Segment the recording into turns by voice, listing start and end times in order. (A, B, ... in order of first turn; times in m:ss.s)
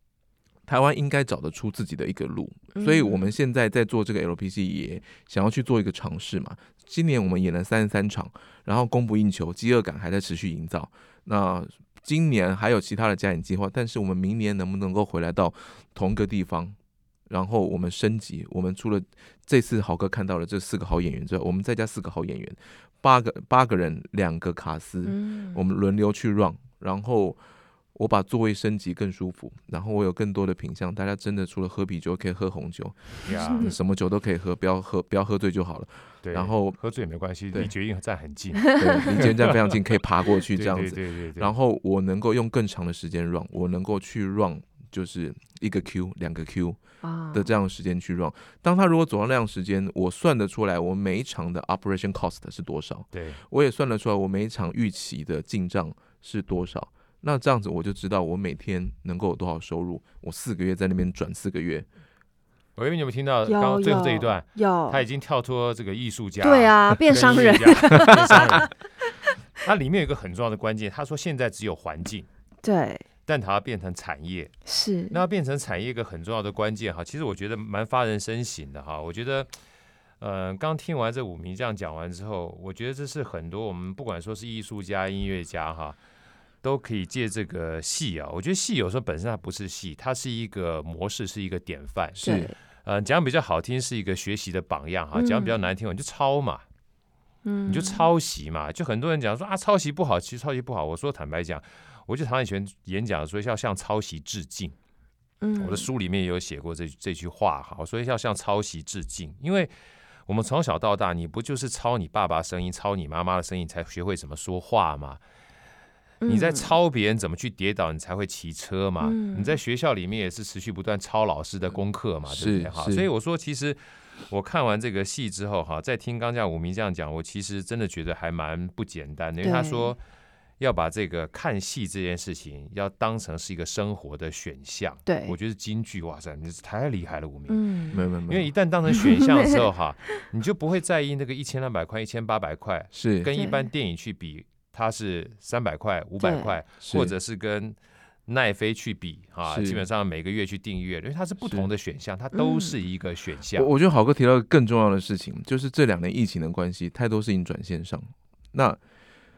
0:00.7-0:16.8 A
0:02.8-0:03.3 B
0:17.3-0:27.4 A
0:25.0-0:25.6 B
0:27.9-0:36.8 A
0:33.2-0:33.7 C
0:36.2-0:39.6 C
0:38.7-0:39.0 B
0:38.8-0:46.8 A
0:40.5-0:41.5 C
0:47.0-0:47.5 B
0:47.3-1:01.8 A
0:53.1-0:53.4 C
1:02.8-1:08.7 C
1:03.4-1:05.0 B
1:06.4-1:08.7 B
1:09.6-1:12.3 C
1:12.6-1:13.0 B
1:13.3-1:14.5 C
1:14.6-1:15.2 B
1:15.1-1:19.5 C
1:20.2-1:26.0 C
1:26.6-1:32.3 C
1:32.2-1:32.5 A
1:32.2-1:32.5 B
1:32.8-1:36.6 C
1:35.1-1:35.6 B
1:37.4-1:38.1 B
1:37.7-1:44.8 C
1:45.4-1:45.9 B
1:45.6-1:49.7 C
1:50.3-1:55.2 C
1:56.2-1:56.7 B
1:56.3-2:10.0 C
1:59.0-1:59.6 B
2:02.3-2:03.1 A
2:09.4-2:09.9 B
2:10.6-2:17.6 C
2:15.0-2:15.4 B
2:17.5-2:18.0 B
2:17.9-2:18.5 A
2:18.3-2:27.8 C
2:18.9-2:19.5 B
2:22.9-2:23.3 A
2:23.3-2:23.7 B
2:26.2-2:26.6 B
2:26.8-2:27.1 A
2:28.3-2:33.7 C
2:29.4-2:29.8 A
2:32.3-2:32.7 B
2:33.5-2:38.8 A